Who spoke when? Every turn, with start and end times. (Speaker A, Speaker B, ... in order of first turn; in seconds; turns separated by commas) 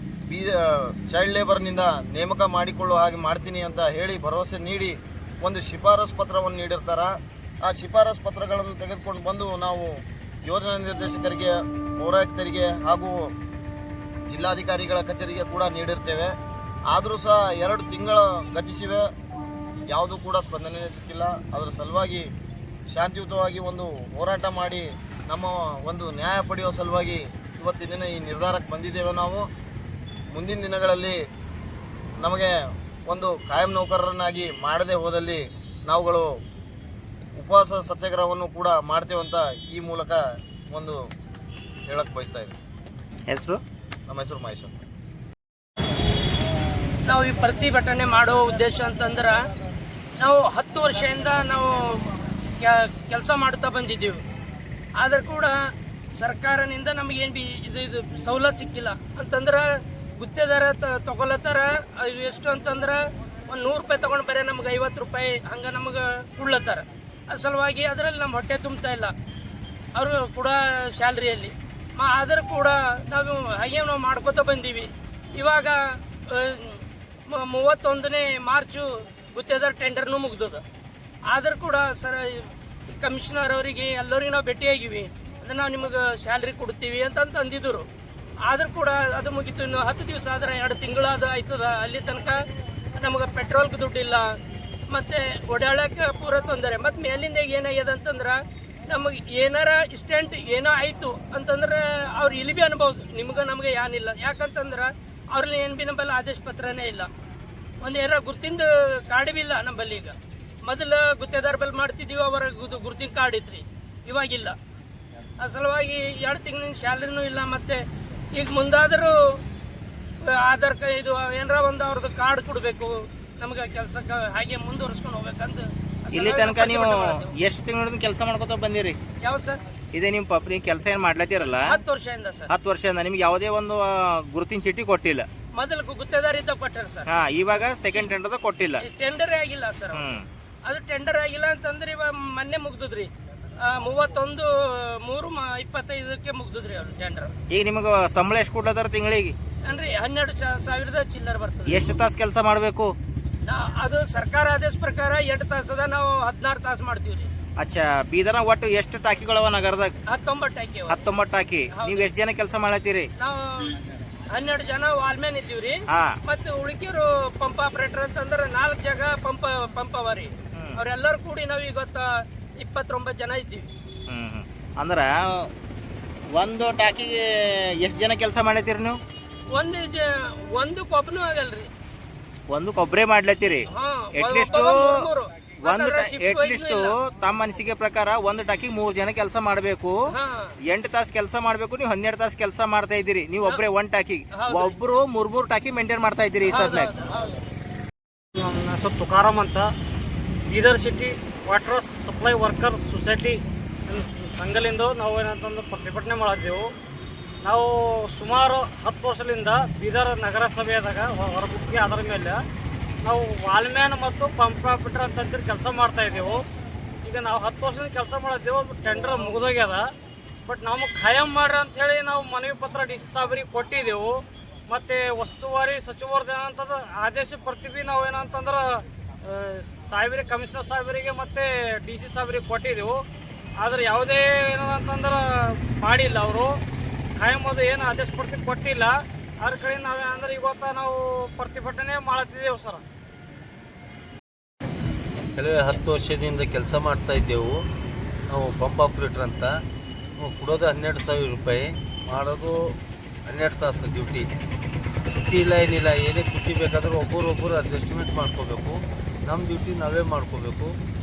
Speaker A: 0.3-13.3, Speaker A: 14.3-16.3, Speaker A: 16.9-19.1, Speaker A: 19.9-22.3, Speaker A: 22.9-29.5, Speaker A: 30.3-31.2, Speaker A: 32.2-36.3, Speaker A: 37.4-40.2, Speaker A: 40.7-41.0, Speaker A: 41.9-42.5, Speaker B: 43.3-43.6, Speaker A: 44.1-44.8, Speaker C: 47.0-49.4, Speaker C: 50.2-54.2, Speaker C: 55.0-55.6, Speaker C: 56.2-69.1, Speaker C: 70.0-80.6, Speaker C: 81.3-87.9, Speaker C: 88.5-92.3, Speaker C: 93.0-94.3, Speaker C: 94.9-98.4, Speaker C: 98.9-107.1, Speaker C: 107.8-114.5, Speaker C: 115.4-117.8, Speaker C: 118.3-119.2, Speaker C: 120.3-127.4, Speaker B: 126.1-129.0, Speaker C: 129.2-129.6, Speaker B: 129.9-131.8, Speaker C: 131.7-132.5, Speaker B: 132.5-135.3, Speaker C: 135.6-137.1, Speaker B: 137.1-138.8, Speaker C: 138.8-147.3, Speaker B: 139.9-140.3, Speaker B: 147.5-149.3, Speaker C: 149.7-152.0, Speaker B: 151.7-152.9, Speaker C: 153.4-157.3, Speaker B: 157.6-159.9, Speaker C: 160.1-161.0, Speaker B: 160.9-163.1, Speaker C: 161.7-162.1, Speaker C: 163.2-163.8, Speaker C: 164.3-172.1, Speaker B: 165.9-166.2, Speaker B: 170.5-170.8, Speaker C: 172.6-173.7, Speaker B: 174.1-175.5, Speaker B: 176.3-177.2, Speaker B: 177.8-179.0, Speaker C: 179.5-181.7, Speaker B: 182.5-184.9, Speaker C: 183.7-186.9, Speaker B: 185.6-189.9, Speaker C: 190.1-190.5, Speaker B: 190.7-196.9, Speaker C: 194.3-194.8, Speaker C: 196.5-197.2, Speaker D: 198.3-199.7, Speaker D: 200.5-206.7, Speaker D: 207.4-212.4, Speaker D: 213.0-216.4, Speaker D: 217.0-219.9, Speaker D: 220.4-233.0, Speaker D: 233.6-236.6, Speaker D: 237.2-242.8, Speaker E: 245.3-247.6, Speaker E: 248.3-249.5, Speaker E: 250.2-254.3, Speaker E: 255.1-260.7